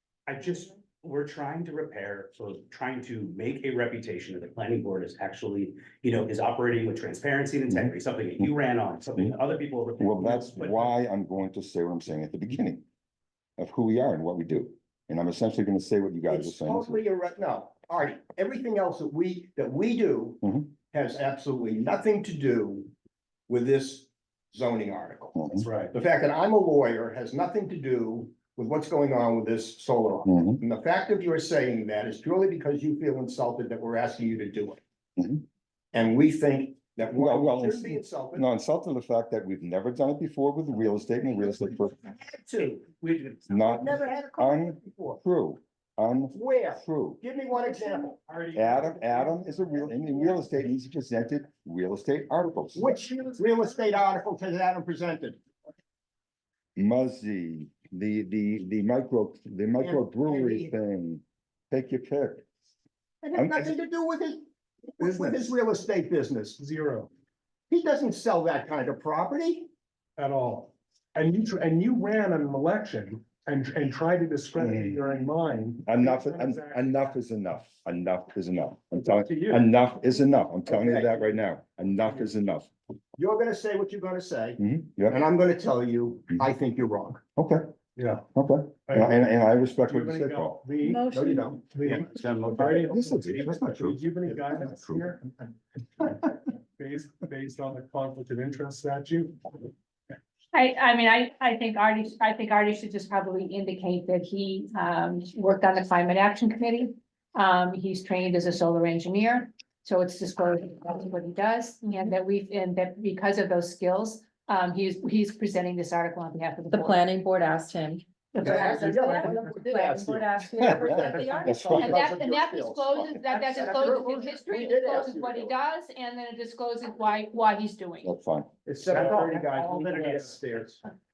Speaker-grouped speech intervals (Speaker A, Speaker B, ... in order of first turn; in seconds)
Speaker A: 0.3-10.9, 91.9-93.4
Speaker B: 7.7-8.5, 10.0-12.8, 13.6-17.0, 20.4-20.7, 25.4-25.7, 30.3-30.6, 35.2-35.4, 37.1-42.0, 43.5-47.2, 48.5-52.9, 56.8-62.5, 63.4-63.7, 74.6-75.0, 75.9-82.7, 84.6-85.2, 87.4-87.7, 88.3-90.7, 92.6-94.1, 94.6-95.0, 121.5-122.0, 128.0-128.5
Speaker C: 16.3-22.9, 23.5-34.8, 35.9-38.5, 41.4-45.2, 46.3-48.2, 52.8-55.4, 59.8-60.7, 63.2-64.5, 65.0-66.6, 67.7-69.7, 80.7-81.4, 83.2-87.2, 91.1-92.2, 118.4-125.5, 128.7-130.8
Speaker D: 25.6-25.9, 47.5-50.4, 53.2-53.4, 65.0-65.5, 66.6-67.1, 70.2-77.2, 88.0-88.2, 88.9-99.7, 128.9-130.4
Speaker E: 90.8-91.3, 116.7-121.9
Speaker F: 100.5-117.0, 121.8-128.1